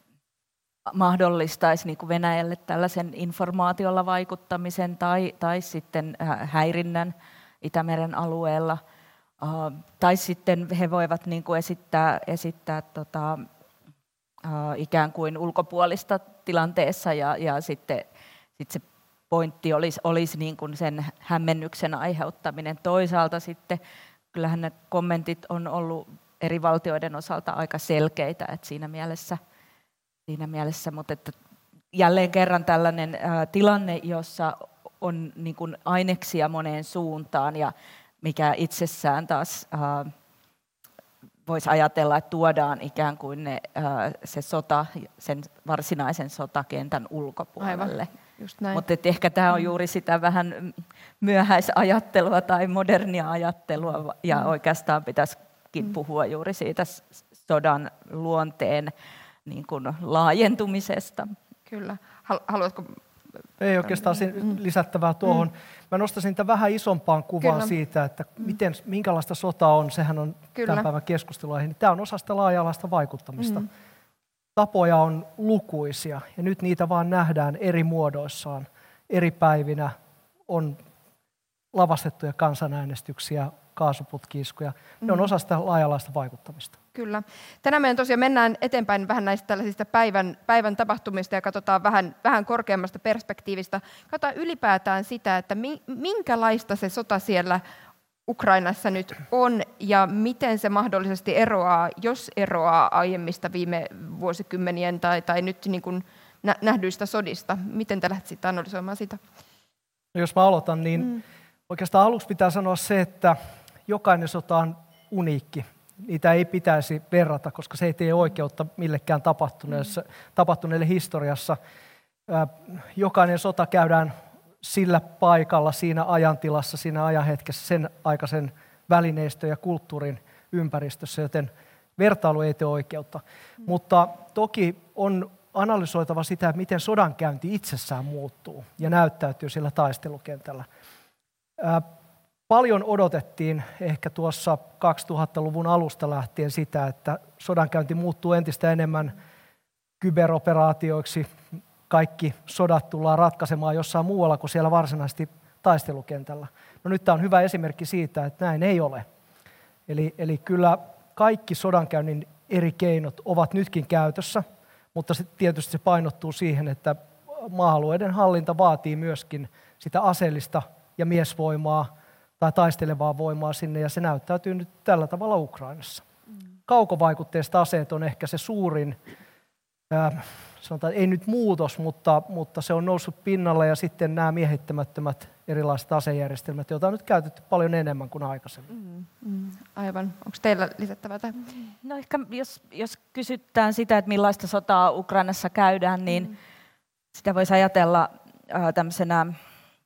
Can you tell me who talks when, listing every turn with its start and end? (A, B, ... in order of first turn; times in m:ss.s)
0:00.9-0:08.8 A
0:09.4-0:13.5 A
0:14.4-0:18.1 A
0:18.6-0:23.8 A
0:24.3-0:29.4 A
0:30.3-0:31.3 A
0:31.9-0:40.1 A
0:41.5-0:48.1 A
0:47.6-0:48.8 B
0:48.7-0:58.9 A
0:59.5-1:01.3 A
1:01.7-1:03.0 B
1:03.6-1:13.7 C
1:03.9-1:04.6 B
1:07.4-1:07.7 B
1:10.6-1:10.9 B
1:13.4-1:13.7 B
1:14.6-1:19.9 C
1:20.5-1:20.8 C
1:21.7-1:26.8 C
1:27.0-1:37.6 B
1:38.3-1:49.2 B
1:50.1-1:51.2 C
1:51.7-2:01.6 C
2:02.3-2:20.7 C
2:21.6-2:21.8 C
2:22.5-2:29.2 C
2:30.0-2:31.3 C
2:31.9-2:39.1 C
2:39.9-2:56.0 C
2:56.7-2:59.0 C
2:59.9-3:08.7 C
3:08.7-3:11.4 B
3:11.8-3:16.3 A
3:17.2-3:19.4 A